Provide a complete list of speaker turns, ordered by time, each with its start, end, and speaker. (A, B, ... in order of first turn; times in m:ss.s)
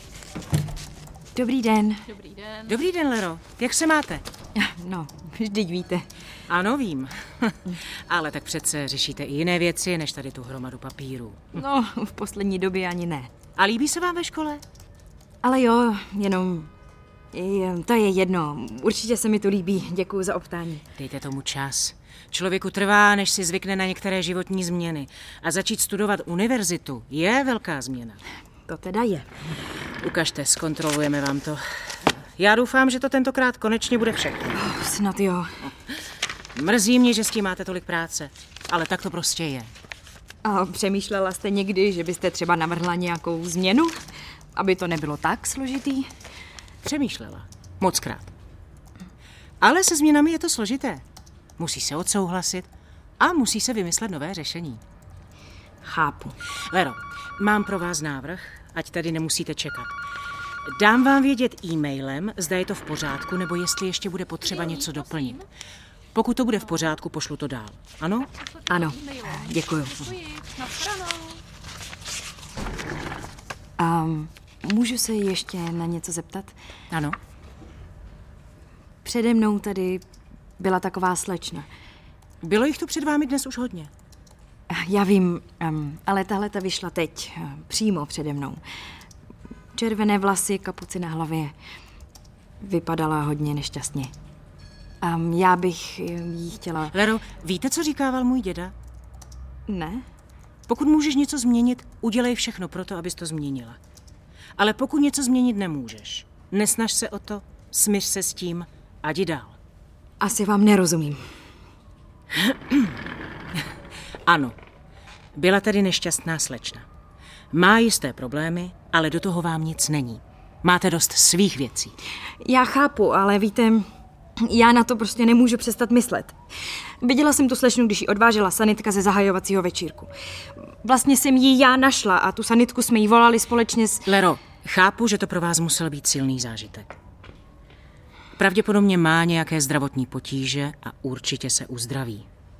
0:01.3-0:02.1 A
0:02.6-0:04.2 B
0:04.5-0:06.0 A
0:06.5-0:11.4 B
0:11.5-0:13.3 A
0:13.6-0:14.6 B
0:15.4-0:16.7 A
0:17.3-0:20.8 A
0:21.0-0:28.2 B
0:28.7-0:29.3 A
0:30.0-0:31.6 B
0:32.4-0:34.5 B
0:34.5-0:35.5 A
0:36.5-0:39.7 B
0:40.4-0:43.9 A
0:44.5-0:46.1 A
0:46.8-0:48.3 B
0:49.6-0:51.0 B
0:51.6-0:52.7 B
0:53.2-0:54.8 B
0:55.8-0:56.3 A
0:56.7-1:00.0 B
1:00.6-1:05.4 B
1:06.1-1:08.3 B
1:08.7-1:10.1 A
1:13.8-1:16.5 A
1:16.9-1:17.2 B
1:19.0-1:20.0 A
1:20.6-1:21.7 A
1:22.4-1:23.9 B
1:24.7-1:28.6 A
1:29.7-1:31.5 A
1:32.6-1:34.1 A
1:35.0-1:36.9 A
1:36.9-1:38.7 B
1:39.7-1:40.0 A
1:40.7-1:43.8 B
1:44.6-1:49.6 B
1:50.2-1:51.2 A
1:52.5-1:52.9 B
1:54.2-1:54.5 B
1:55.3-1:56.8 B
1:57.5-2:01.9 B
2:02.4-2:03.8 A
2:04.4-2:06.4 A
2:07.0-2:10.1 A
2:10.8-2:14.1 A
2:14.0-2:17.0 B
2:18.4-2:22.2 B